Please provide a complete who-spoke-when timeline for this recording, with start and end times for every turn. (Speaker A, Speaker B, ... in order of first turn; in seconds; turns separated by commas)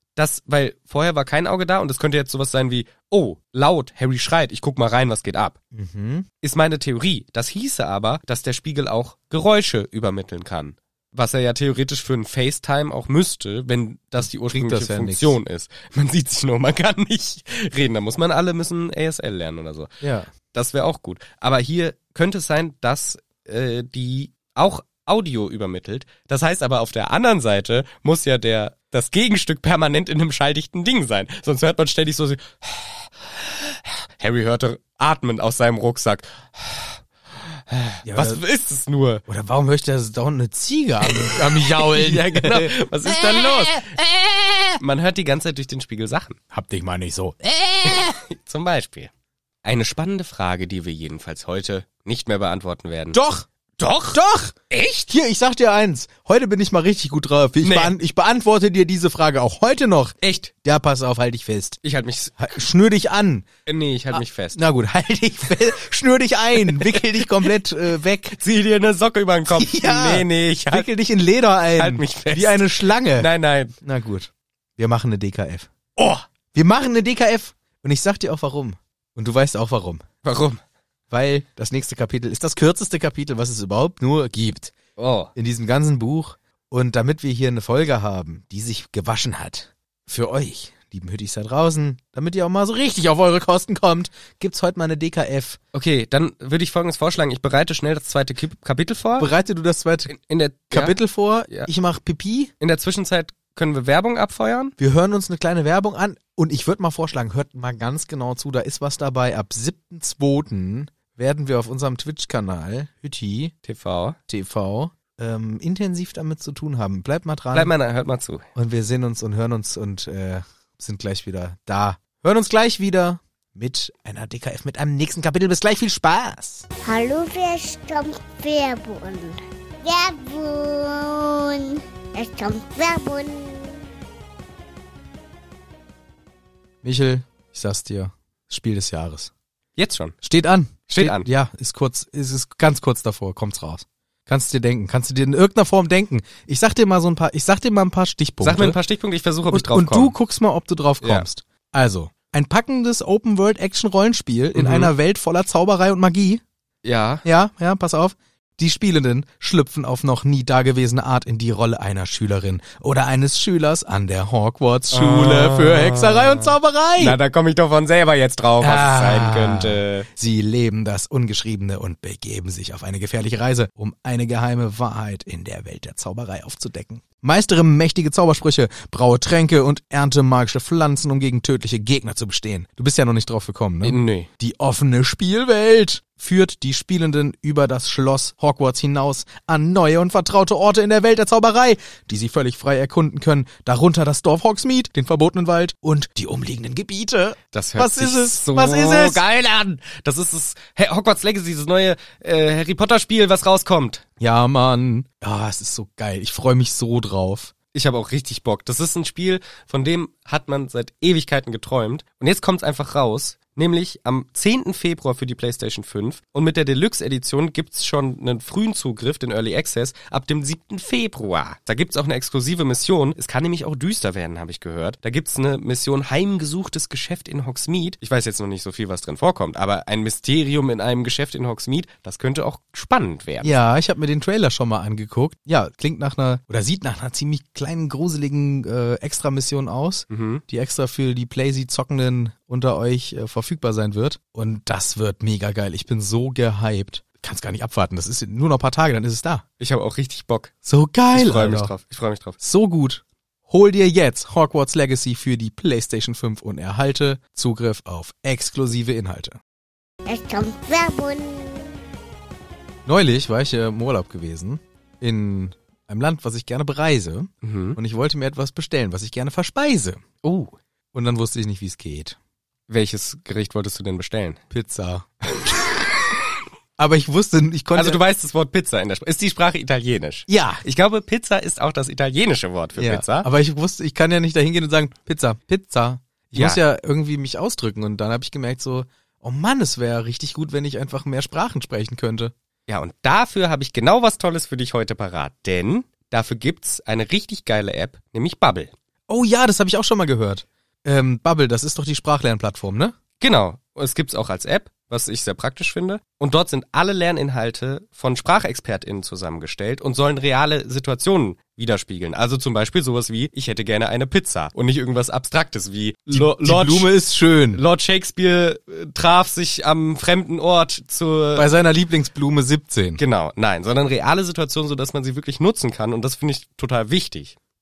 Speaker A: 0.1-5.6, Speaker B: 5.7-6.3, Speaker A: 6.4-19.9, Speaker B: 14.2-15.4, Speaker B: 20.0-20.3, Speaker A: 20.5-39.2, Speaker B: 38.0-38.4, Speaker B: 39.3-43.8, Speaker A: 41.0-44.1, Speaker A: 44.8-46.4, Speaker B: 46.5-48.2, Speaker A: 47.8-49.1, Speaker A: 49.6-53.2, Speaker B: 53.1-53.5, Speaker A: 53.8-54.2, Speaker B: 54.1-54.5, Speaker A: 54.7-55.1, Speaker B: 55.1-61.8, Speaker A: 57.6-57.9, Speaker A: 60.2-60.5, Speaker A: 61.8-62.5, Speaker B: 62.4-63.5, Speaker A: 63.6-64.6, Speaker B: 64.1-68.4, Speaker A: 66.7-67.2, Speaker A: 68.3-70.9, Speaker B: 69.5-73.3, Speaker A: 71.7-73.8, Speaker B: 73.8-75.7, Speaker A: 76.0-76.2, Speaker B: 76.5-80.0, Speaker A: 80.2-80.6, Speaker B: 81.1-84.7, Speaker A: 85.0-85.3, Speaker B: 85.3-95.6, Speaker A: 95.7-99.3, Speaker B: 99.2-100.1, Speaker A: 100.1-101.0, Speaker B: 100.7-102.5, Speaker A: 102.6-104.7, Speaker B: 104.8-113.5, Speaker A: 113.6-114.2, Speaker B: 114.3-117.7, Speaker A: 117.5-118.4, Speaker B: 118.5-126.6, Speaker C: 126.8-133.8, Speaker B: 136.8-139.3, Speaker A: 139.8-140.2, Speaker B: 140.2-148.8, Speaker A: 140.9-141.3, Speaker A: 148.4-150.1, Speaker B: 149.5-156.4, Speaker A: 154.5-154.9, Speaker A: 156.8-157.2, Speaker B: 157.2-167.2, Speaker A: 164.9-170.1, Speaker B: 168.6-199.2, Speaker A: 183.8-184.3, Speaker A: 197.5-204.0, Speaker B: 204.2-207.5, Speaker A: 207.7-233.6, Speaker B: 233.4-249.4, Speaker A: 240.1-240.4, Speaker A: 249.6-250.5, Speaker B: 250.6-251.7, Speaker A: 251.1-252.4, Speaker B: 252.4-259.4, Speaker C: 260.1-261.8, Speaker B: 262.9-270.0, Speaker A: 267.4-267.8, Speaker A: 270.2-270.5, Speaker B: 270.9-272.2, Speaker A: 272.7-274.4, Speaker B: 274.5-275.1, Speaker B: 276.8-278.0, Speaker A: 277.7-283.3, Speaker B: 280.3-280.6, Speaker B: 282.8-292.3, Speaker A: 286.3-286.6, Speaker A: 292.7-298.7, Speaker B: 299.1-302.9, Speaker A: 303.2-316.9, Speaker B: 316.1-317.6, Speaker A: 317.5-321.5, Speaker B: 321.3-323.0, Speaker A: 323.0-327.4